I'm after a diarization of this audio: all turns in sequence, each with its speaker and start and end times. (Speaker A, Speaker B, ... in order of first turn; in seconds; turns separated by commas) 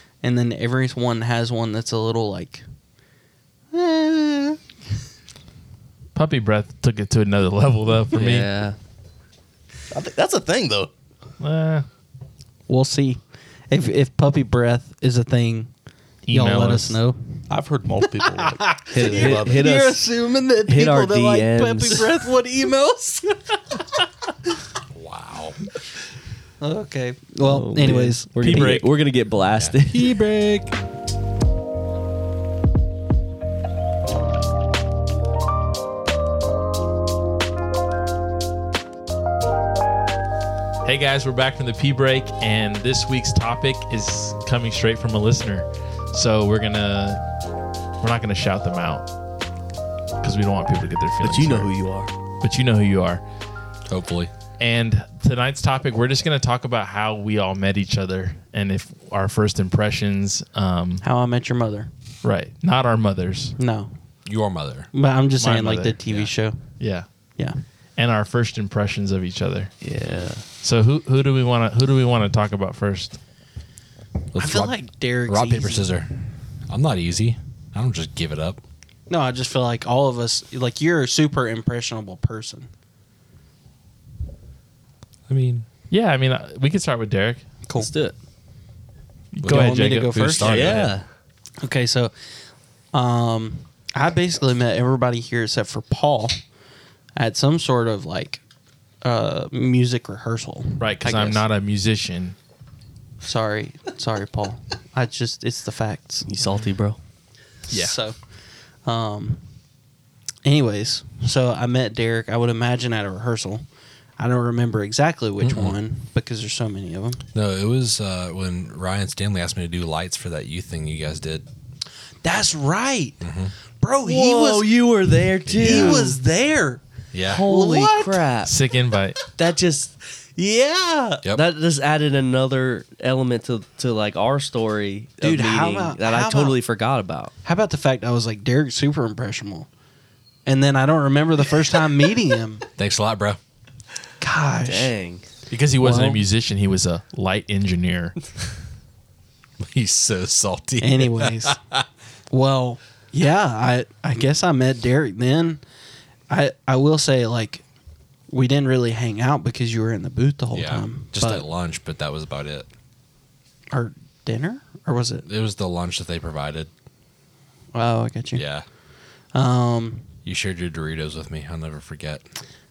Speaker A: 0.2-2.6, Speaker A: 3.7-4.6, Speaker B: 6.1-8.5, Speaker C: 8.1-8.8, Speaker D: 9.9-10.9, Speaker B: 11.4-11.8, Speaker A: 12.7-15.7, Speaker B: 16.2-17.0, Speaker A: 16.3-17.5, Speaker D: 17.5-19.8, Speaker A: 18.2-23.8, Speaker C: 18.9-20.0, Speaker C: 20.6-22.1, Speaker E: 24.9-25.6, Speaker A: 26.6-28.9, Speaker C: 27.4-30.1, Speaker B: 27.8-28.6, Speaker E: 29.6-30.8, Speaker B: 40.8-47.2, Speaker B: 48.0-49.1, Speaker B: 50.2-51.7, Speaker C: 51.2-52.1, Speaker B: 52.4-53.2, Speaker E: 53.9-54.3, Speaker B: 54.6-61.0, Speaker A: 61.0-61.9, Speaker B: 62.2-63.5, Speaker A: 63.6-63.9, Speaker E: 64.2-64.9, Speaker A: 64.9-66.7, Speaker B: 65.4-67.1, Speaker B: 68.0-69.8, Speaker C: 69.8-70.5, Speaker B: 70.6-73.2, Speaker E: 74.3-76.1, Speaker A: 74.4-75.9, Speaker E: 76.7-78.6, Speaker A: 79.1-82.7, Speaker E: 85.3-85.7, Speaker B: 85.9-87.4, Speaker A: 87.7-87.9, Speaker C: 87.7-88.2, Speaker B: 89.3-90.8, Speaker E: 89.4-91.0, Speaker A: 89.5-90.8, Speaker C: 90.4-91.0, Speaker A: 91.6-92.1, Speaker A: 92.9-96.4, Speaker A: 97.2-98.4, Speaker A: 99.0-101.1, Speaker B: 100.8-102.3, Speaker C: 101.0-101.4, Speaker A: 103.2-106.3, Speaker C: 106.2-107.0, Speaker B: 107.7-108.0, Speaker A: 107.7-108.2, Speaker A: 108.8-109.4, Speaker A: 110.4-113.6, Speaker A: 114.2-117.2, Speaker E: 115.4-115.8, Speaker E: 117.3-121.5, Speaker A: 122.2-123.3, Speaker E: 123.2-123.5, Speaker A: 123.8-124.7, Speaker C: 124.0-126.2, Speaker E: 125.4-126.1, Speaker A: 125.6-126.8, Speaker E: 127.1-127.5, Speaker C: 127.2-128.5, Speaker A: 127.4-128.3, Speaker B: 128.4-129.2, Speaker C: 129.3-129.9, Speaker A: 130.3-131.2, Speaker C: 131.3-137.3, Speaker A: 135.2-136.6, Speaker A: 137.4-139.7, Speaker A: 140.4-142.6, Speaker E: 142.8-143.4, Speaker A: 144.2-144.9, Speaker C: 144.6-145.3, Speaker B: 145.5-148.2, Speaker A: 145.8-146.2, Speaker E: 149.6-151.8, Speaker A: 150.8-151.6, Speaker A: 152.3-155.6, Speaker A: 156.3-157.6, Speaker A: 158.3-161.4, Speaker E: 160.5-162.7, Speaker A: 163.7-165.3, Speaker E: 165.2-166.7, Speaker A: 167.7-168.4, Speaker E: 168.3-168.6, Speaker A: 169.3-170.1, Speaker E: 170.2-172.3